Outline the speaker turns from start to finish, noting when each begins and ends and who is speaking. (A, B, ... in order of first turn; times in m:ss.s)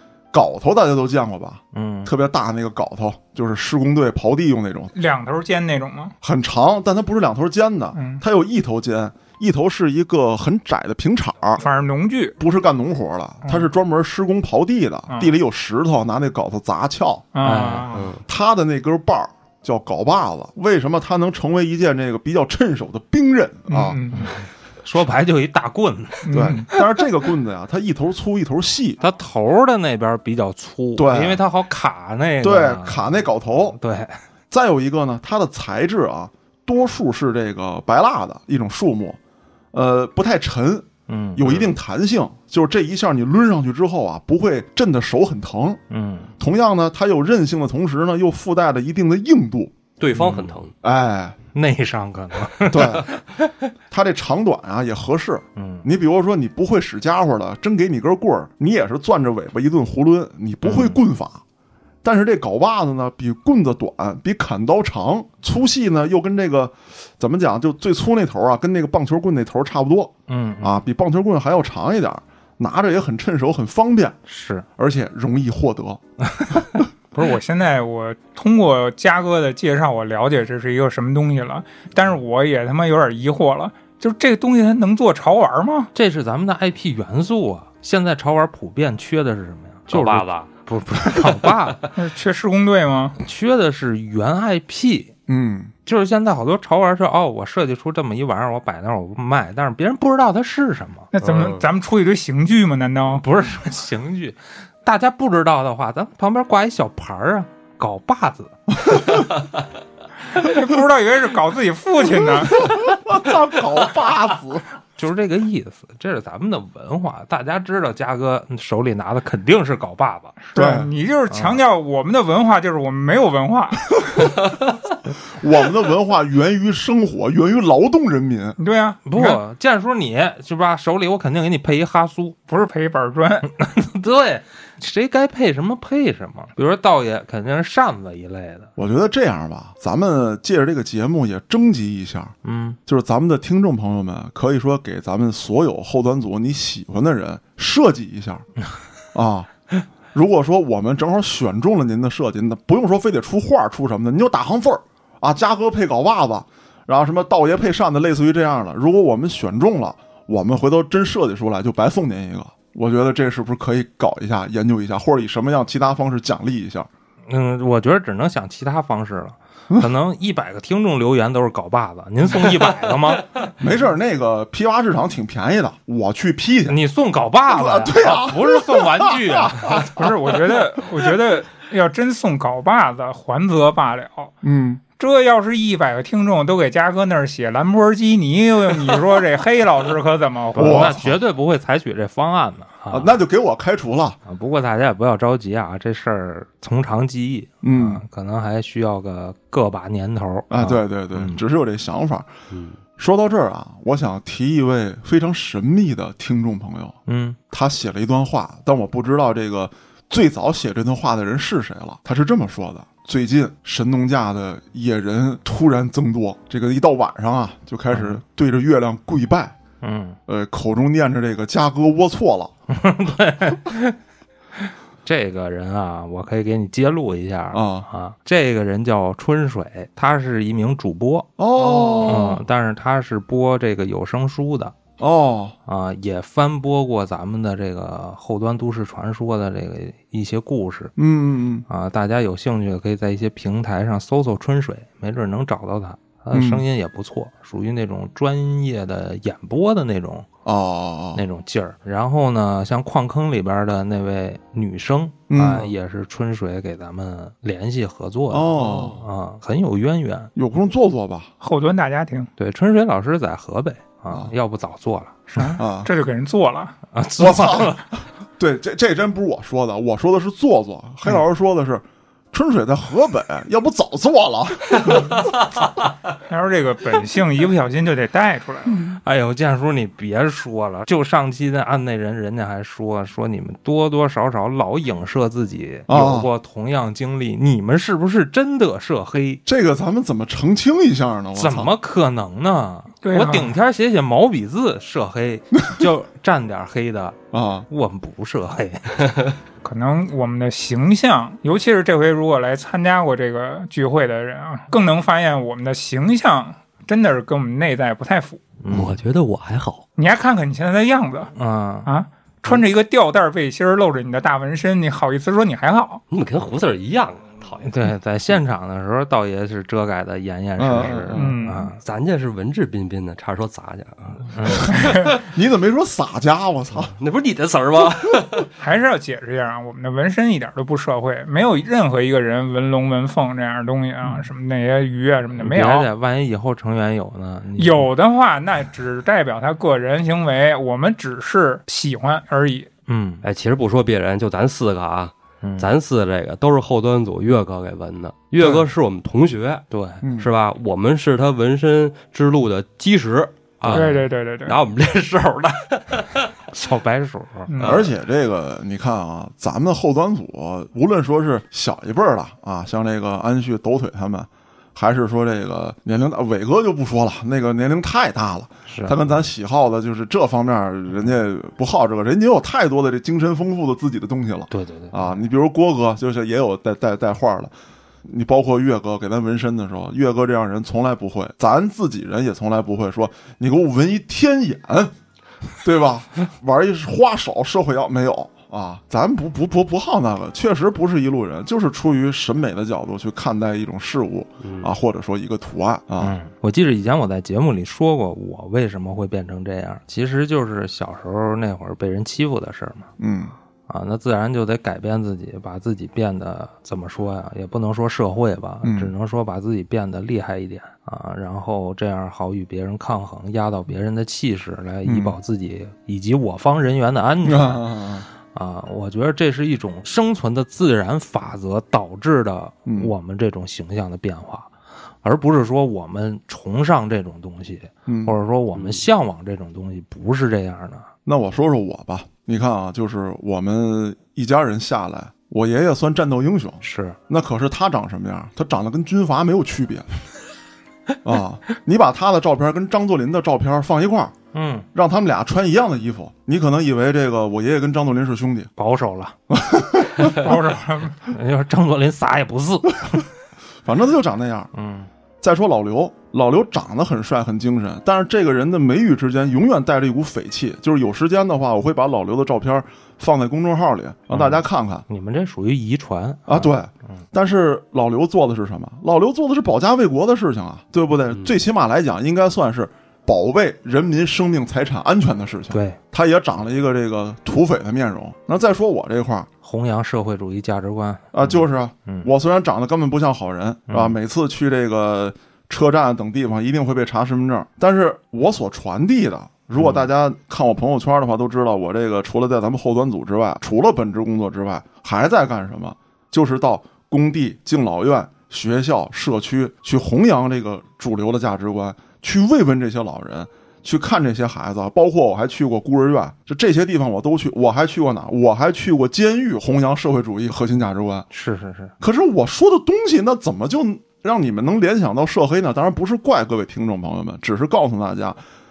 0:00.3-0:04.9 A
0:01.7-0:02.1 B
0:04.9-0:06.2 C
0:06.2-0:11.6 A
0:08.0-0:08.2 C
0:11.6-0:12.4 C
0:12.4-0:17.3 A
0:17.4-0:18.1 C
0:17.4-0:17.9 B
0:17.9-0:18.2 D
0:18.3-0:24.0 A
0:23.7-0:24.3 C
0:24.2-0:26.5 B
0:26.3-0:26.7 C
0:26.3-0:29.0 A
0:29.0-0:34.2 B
0:31.0-0:31.4 A
0:32.4-0:33.8 A
0:34.5-0:39.2 A
0:39.7-0:45.8 A
0:41.1-0:41.5 B
0:45.9-0:46.3 B
0:46.4-0:49.8 A
0:50.0-0:50.7 D
0:50.2-0:50.5 B
0:50.8-0:51.4 A
0:51.5-0:53.4 B
0:52.7-0:53.1 A
0:53.9-1:01.4 A
0:55.6-0:55.9 B
1:00.6-1:01.0 B
1:02.0-1:14.2 A
1:10.3-1:10.8 B
1:14.3-1:14.7 B
1:14.8-1:16.0 A
1:16.2-1:16.7 B
1:16.6-1:16.9 A
1:17.1-1:25.9 C
1:25.9-1:31.8 B
1:29.9-1:30.5 D
1:31.2-1:31.9 D
1:32.0-1:33.2 C
1:33.2-1:35.1 B
1:35.3-1:35.7 A
1:35.9-1:41.1 B
1:41.1-1:43.2 C
1:41.2-1:41.7 D
1:43.2-1:48.6 B
1:50.3-1:52.8 C
1:52.5-1:54.6 A
1:55.0-2:00.4 B
2:00.4-2:04.4 C
2:00.6-2:00.9 A
2:01.3-2:01.6 B
2:05.3-2:08.6 A
2:08.6-2:09.4 C
2:09.1-2:12.4 B
2:12.5-2:13.5 C
2:13.5-2:18.7 B
2:18.8-2:22.4 A
2:22.4-2:22.8 B
2:22.9-2:28.5 A
2:29.1-2:29.5 A
2:30.1-2:46.9 A
2:47.3-2:53.3 B
2:53.6-2:56.8 A
2:56.7-2:59.9 B
2:57.5-2:59.9 A
2:59.9-3:04.3 C
3:04.4-3:04.8 A
3:05.0-3:11.0 C
3:10.6-3:13.2 B
3:10.6-3:11.2 A
3:12.9-3:14.2 A
3:14.3-3:21.4 B
3:17.6-3:18.0 A
3:20.5-3:22.3 A
3:22.5-3:22.8 D
3:23.0-3:27.0 A
3:27.1-3:27.4 B
3:27.5-3:39.6 A
3:37.9-3:38.2 B
3:39.8-3:40.2 B
3:40.3-3:42.5 A
3:42.7-3:44.0 B
3:44.6-3:51.3 B
3:47.5-3:47.9 A
3:51.4-3:52.4 A
3:51.6-3:52.3 D
3:52.1-3:54.8 B
3:55.0-3:55.6 A
3:55.7-4:01.0 B
4:01.0-4:01.7 A
4:01.7-4:10.3 B
4:06.3-4:06.6 A
4:10.4-4:11.2 A
4:11.2-4:20.3 B
4:15.3-4:15.7 A
4:18.3-4:19.0 A
4:18.6-4:19.0 D
4:20.4-4:21.3 A
4:21.4-4:22.3 C
4:22.4-4:25.6 B
4:25.3-4:26.8 C
4:25.6-4:25.9 A
4:26.9-4:27.8 B
4:27.2-4:35.2 A
4:36.3-4:38.9 C
4:38.9-4:49.4 B
4:45.9-4:46.3 A
4:49.5-4:51.7 A
4:51.4-4:59.2 B
4:53.0-4:53.5 C
4:57.3-4:57.7 A
4:59.6-5:08.4 C
5:08.6-5:09.0 B
5:08.7-5:09.8 D
5:10.0-5:11.3 C
5:11.4-5:11.9 B
5:11.9-5:16.0 C
5:16.1-5:17.8 D
5:17.6-5:21.8 B
5:20.6-5:21.4 A
5:21.1-5:21.7 C
5:21.8-5:25.2 D
5:24.3-5:24.7 B
5:24.7-5:25.1 C
5:24.9-5:26.9 A
5:27.0-5:28.5 D
5:28.6-5:35.9 C
5:35.4-5:37.9 B
5:37.6-5:42.7 C
5:42.9-5:43.2 B
5:43.2-5:49.7 D
5:45.4-5:45.7 B
5:49.7-5:50.0 B
5:50.0-5:50.3 A
5:50.2-5:56.3 D
5:53.6-5:54.0 B
5:53.7-5:54.6 C
5:56.5-5:57.5 B
5:57.5-5:57.8 C
5:57.6-5:57.9 D
5:57.6-6:17.5 A
6:08.7-6:09.0 B
6:14.5-6:15.1 B
6:18.0-6:24.9 A
6:25.6-6:36.2 A
6:34.4-6:34.7 D
6:36.0-6:42.9 B
6:43.0-6:43.3 A
6:43.7-6:57.7 B
6:48.6-6:48.9 A
6:54.8-6:55.2 A
6:57.2-6:58.1 A
6:58.3-7:04.5 B
7:02.7-7:02.9 A
7:05.0-7:10.9 B
7:07.9-7:08.2 A
7:08.6-7:08.8 D
7:11.1-7:19.9 A
7:16.6-7:17.0 B
7:21.0-7:24.1 A
7:24.3-7:24.7 B
7:24.7-7:28.5 A
7:28.6-7:29.2 B
7:29.3-7:30.2 A
7:30.0-7:31.0 C
7:31.1-7:33.1 B
7:33.6-7:34.5 A
7:34.5-7:34.9 B
7:35.2-7:44.8 A
7:44.1-7:47.0 B
7:46.3-7:59.3 A
7:55.5-7:55.8 B
7:59.4-8:02.1 B
8:01.1-8:31.1 A
8:03.7-8:04.0 B
8:09.6-8:09.8 B
8:31.1-8:31.7 B
8:31.8-8:38.2 A